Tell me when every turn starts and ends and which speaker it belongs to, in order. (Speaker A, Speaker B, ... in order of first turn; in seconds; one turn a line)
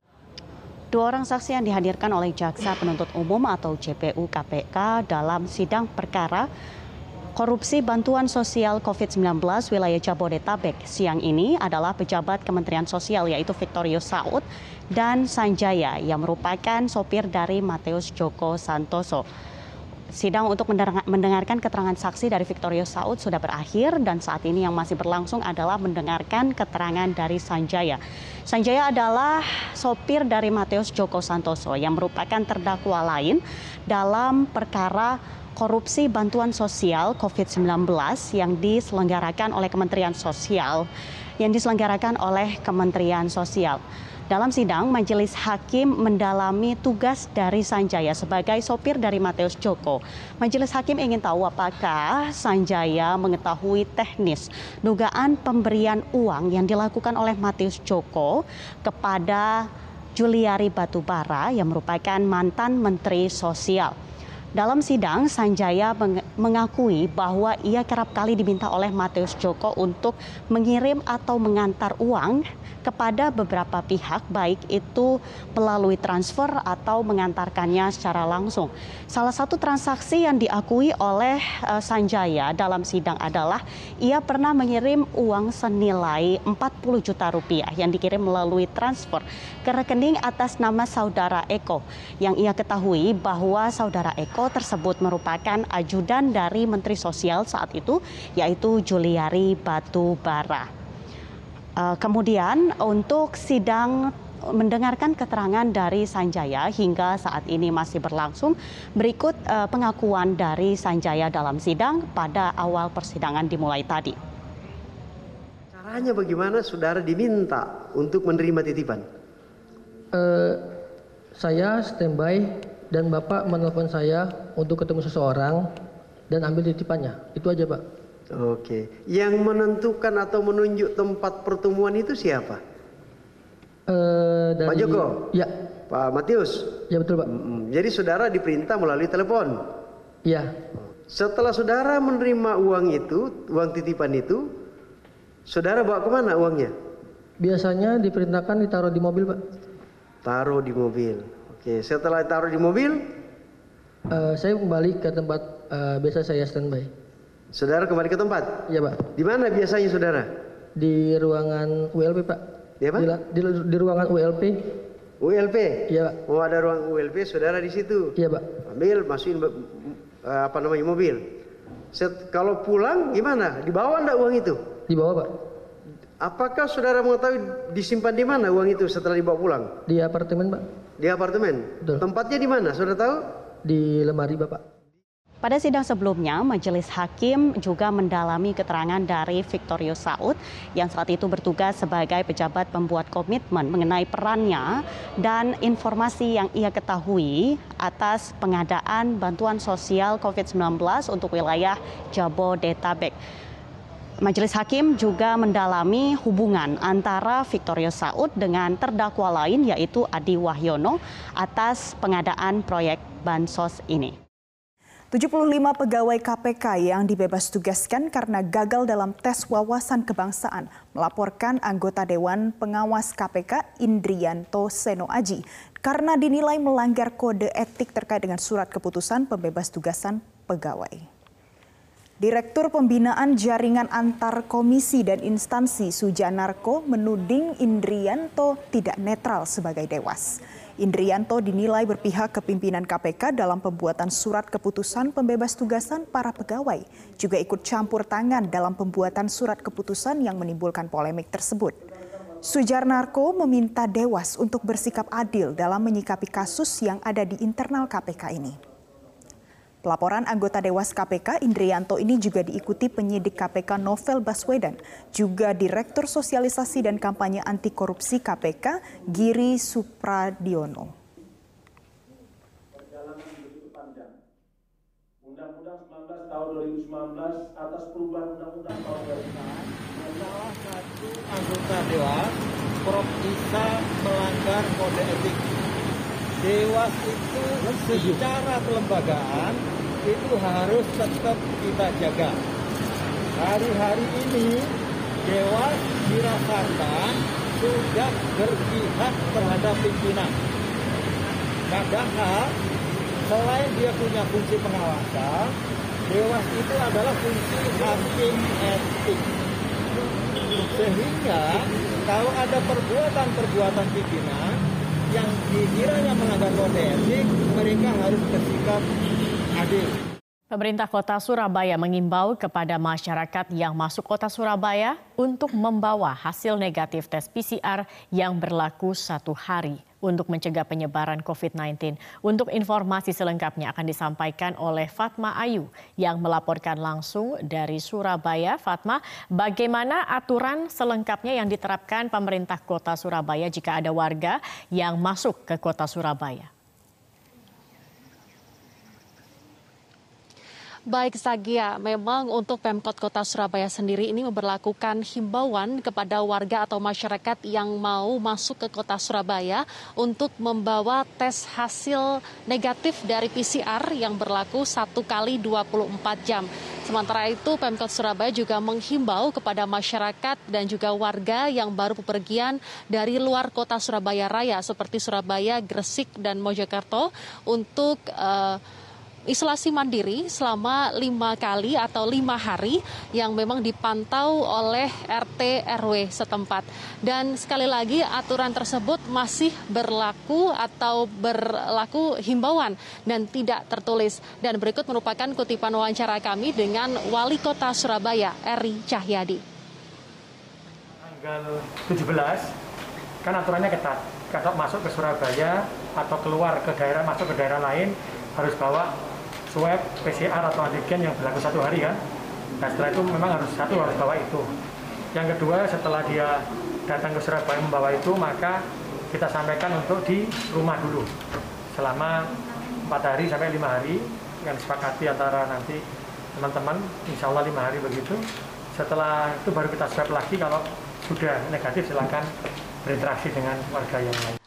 Speaker A: 0.9-6.5
Speaker A: 7.3-19.2
Speaker A: 20.1-40.9
Speaker A: 41.4-63.9
Speaker A: 64.5-100.7
Speaker A: 101.8-114.2
Speaker B: 115.8-119.0
Speaker C: 120.1-120.6
Speaker C: 121.4-125.7
Speaker C: 126.3-127.8
Speaker B: 128.4-132.6
Speaker C: 133.9-135.5
Speaker B: 134.7-135.1
Speaker B: 135.9-136.6
Speaker C: 136.9-137.3
Speaker B: 137.3-139.6
Speaker C: 140.2-140.5
Speaker B: 141.1-144.4
Speaker B: 145.5-146.7
Speaker C: 147.4-149.4
Speaker B: 150.3-153.0
Speaker C: 154.1-156.9
Speaker B: 157.5-158.5
Speaker C: 158.7-159.1
Speaker B: 159.2-160.2
Speaker C: 160.8-162.4
Speaker C: 162.9-164.6
Speaker B: 165.2-165.7
Speaker C: 165.9-166.2
Speaker B: 166.3-168.1
Speaker C: 168.2-168.6
Speaker B: 168.7-169.5
Speaker B: 170.2-171.2
Speaker B: 171.9-174.6
Speaker C: 174.9-175.3
Speaker B: 176.2-179.6
Speaker C: 179.9-180.6
Speaker B: 181.0-183.2
Speaker C: 183.6-184.6
Speaker A: 185.4-203.2
Speaker A: 204.2-214.2
Speaker D: 215.1-231.1
Speaker D: 232.2-251.8
Speaker D: 252.4-258.6
Speaker D: 259.8-270.9
Speaker E: 272.7-274.1
Speaker E: 275.2-279.3
Speaker F: 279.3-285.5
Speaker F: 286.4-292.4
Speaker F: 293.3-300.3
Speaker F: 301.7-302.5
Speaker F: 303.2-305.5
Speaker F: 306.1-309.3
Speaker F: 310.7-314.6
Speaker F: 315.1-318.8
Speaker F: 319.5-320.0
Speaker G: 320.5-346.5
Speaker H: 350.9-378.6
Speaker H: 379.3-399.4
Speaker I: 401.1-402.5
Speaker I: 403.2-408.9
Speaker I: 409.5-412.0
Speaker I: 412.6-414.5
Speaker I: 415.1-421.1
Speaker I: 421.7-422.3
Speaker I: 422.8-425.8
Speaker I: 426.3-428.2
Speaker I: 428.7-432.3
Speaker I: 432.8-434.4